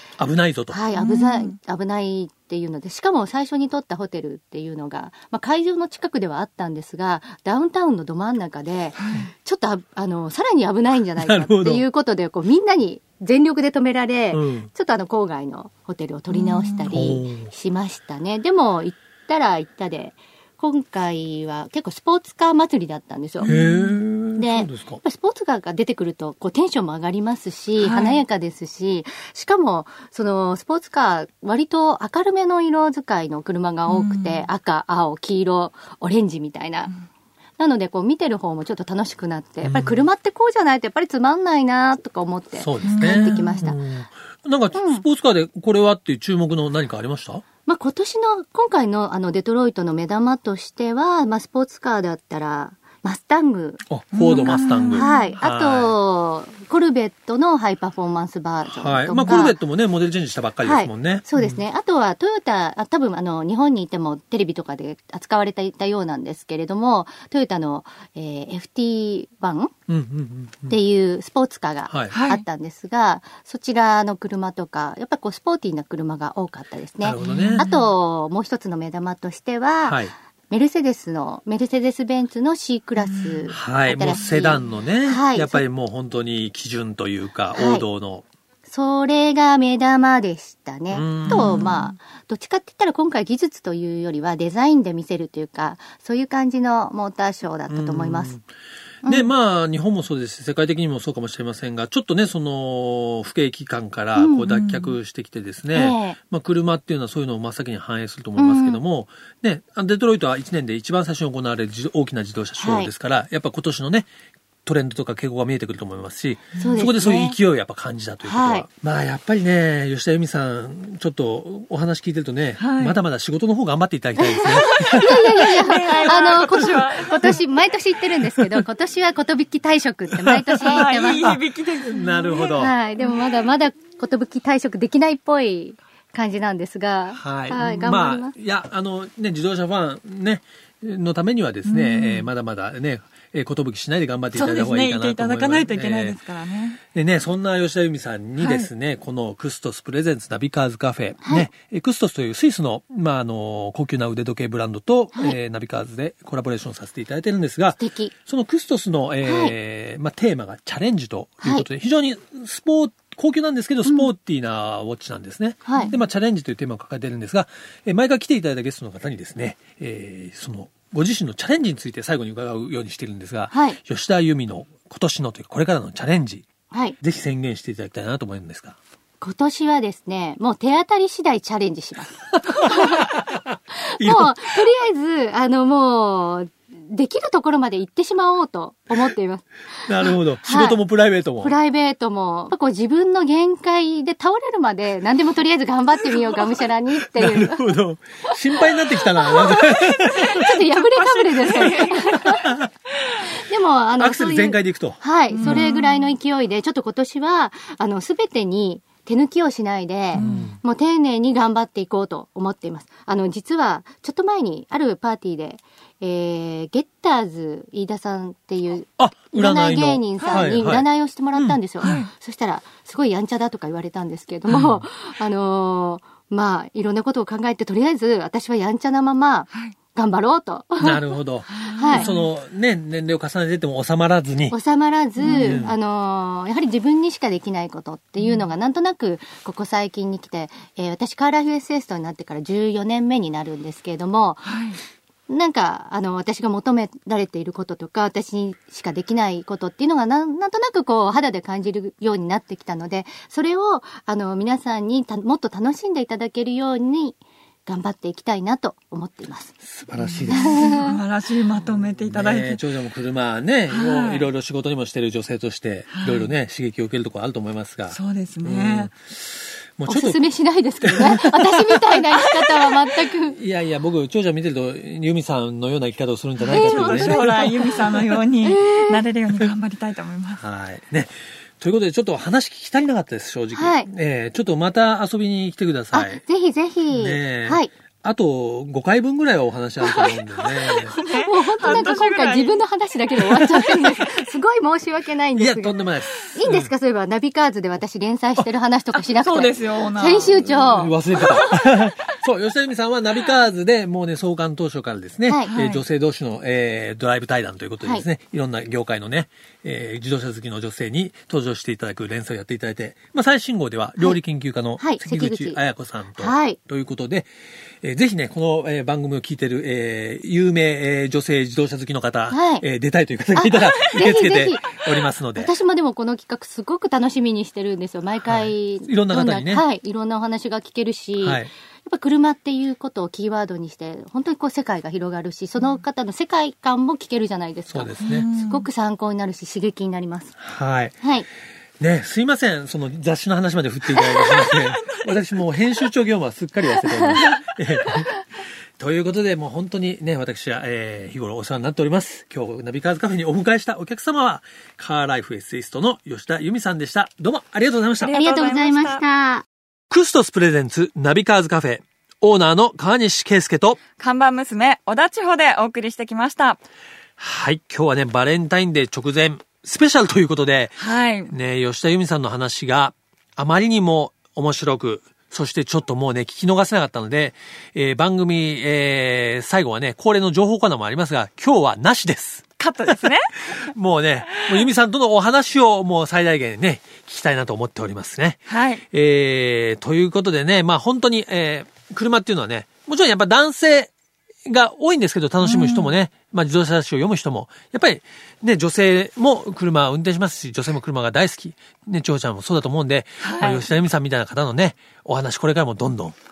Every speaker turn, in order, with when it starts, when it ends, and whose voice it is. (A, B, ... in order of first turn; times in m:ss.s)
0:00.2-0:00.8 A
0:00.7-0:23.5 B
0:00.9-0:01.6 C
0:09.0-0:09.3 C
0:11.2-0:11.8 A
0:14.3-0:14.7 A
0:16.3-0:16.9 C
0:16.9-0:17.5 A
0:23.4-0:24.0 C
0:23.4-0:25.0 A
0:24.4-0:36.9 B
0:27.8-0:28.2 C
0:33.9-0:34.4 C
0:37.6-0:43.8 B
0:39.6-0:40.0 A
0:42.5-0:47.4 A
0:42.8-0:43.7 C
0:44.7-0:45.0 B
0:47.6-0:59.6 B
0:53.9-0:55.9 A
0:54.1-0:55.4 C
0:58.7-1:01.6 A
1:00.6-1:09.7 B
1:09.9-1:10.8 A
1:10.7-1:25.6 B
1:11.9-1:12.1 A
1:12.1-1:12.4 C
1:17.0-1:17.7 A
1:17.2-1:17.9 C
1:19.8-1:20.1 A
1:23.0-1:23.4 C
1:23.5-1:28.2 A
1:27.6-1:27.8 B
1:28.6-1:38.3 B
1:30.9-1:31.7 A
1:31.2-1:31.9 C
1:37.7-1:38.4 A
1:39.0-1:39.3 B
1:39.0-1:54.1 A
1:44.2-1:44.5 B
1:44.5-1:45.0 C
1:45.7-1:46.2 B
1:48.4-1:48.8 B
1:52.6-1:52.9 B
1:54.6-2:05.6 A
1:56.5-1:56.9 C
1:56.6-1:57.4 B
1:58.2-1:58.6 B
2:02.6-2:03.0 C
2:04.2-2:11.3 B
2:04.6-2:07.4 C
2:08.4-2:08.6 A
2:10.1-2:12.7 A
2:10.6-2:13.1 C
2:12.6-2:18.3 B
2:17.2-2:26.2 A
2:17.6-2:17.9 C
2:21.6-2:22.3 C
2:24.3-2:26.8 C
2:26.9-2:56.5 A
2:28.4-2:28.7 C
2:31.2-2:31.5 B
2:37.8-2:38.1 B
2:39.2-2:39.5 B
2:41.4-2:41.7 B
2:45.6-2:45.9 B
2:53.5-2:53.8 B
2:56.7-2:57.0 B
2:57.0-2:58.8 A
2:59.2-3:03.1 B
3:02.4-3:04.4 A
3:03.8-3:10.8 B
3:09.8-3:11.5 A
3:11.4-3:17.8 B
3:17.0-3:20.5 A
3:18.9-3:22.5 B
3:20.1-3:22.4 C
3:22.0-3:22.7 A
3:23.4-3:51.1 B
3:24.0-3:25.7 A
3:25.3-3:26.1 C
3:30.1-3:30.5 C
3:30.2-3:30.6 A
3:39.0-3:42.0 A
3:40.2-3:40.6 C
3:41.8-3:42.1 C
3:44.5-3:44.8 A
3:50.8-3:54.6 A
3:51.4-3:52.3 C
3:51.7-3:52.1 B
3:54.5-4:04.6 B
3:55.2-3:55.7 C
3:55.2-3:55.7 A
3:58.2-3:58.4 C
4:04.4-4:04.8 C
4:05.3-4:19.5 B
4:19.6-4:20.8 A
4:20.0-4:22.6 C
4:20.3-4:21.0 B
4:21.6-4:30.2 A
4:23.7-4:24.3 C
4:25.9-4:26.3 C
4:27.9-4:28.9 C
4:29.9-4:33.4 B
4:30.8-4:32.0 A
4:32.1-4:32.8 C
4:33.3-4:37.8 A
4:36.4-4:40.4 C
4:36.5-4:37.9 B
4:38.4-4:39.0 B
4:40.4-4:46.2 A
4:43.5-4:43.9 B
4:45.9-4:47.7 B
4:46.9-4:51.0 A
4:50.7-4:55.8 B
4:50.7-4:52.6 C
4:51.6-4:51.9 A
4:53.3-4:53.8 C
4:55.3-4:56.7 A
4:56.3-5:01.3 B
4:58.9-5:01.7 C
5:00.4-5:17.3 A
5:05.3-5:05.6 B
5:05.5-5:05.8 C
5:14.8-5:15.6 B
5:16.2-5:16.6 B
5:17.8-5:25.5 A
5:22.3-5:22.6 B
5:23.3-5:40.4 B
5:28.2-5:29.6 A
5:31.2-5:31.5 A
5:37.7-5:38.3 A
5:38.0-5:38.6 C
5:40.4-5:41.0 A
5:41.0-5:41.3 B
5:41.8-5:48.2 A
5:44.0-5:45.2 C
5:48.8-5:58.2 A
5:58.0-5:59.0 C
5:58.1-5:59.4 B
5:59.9-6:03.8 A
6:04.0-6:06.6 C
6:07.2-6:33.9 A
6:10.8-6:11.3 C
6:22.6-6:23.7 C
6:28.5-6:28.8 C
6:34.4-6:46.2 A
6:35.4-6:35.9 C
6:43.2-6:43.7 C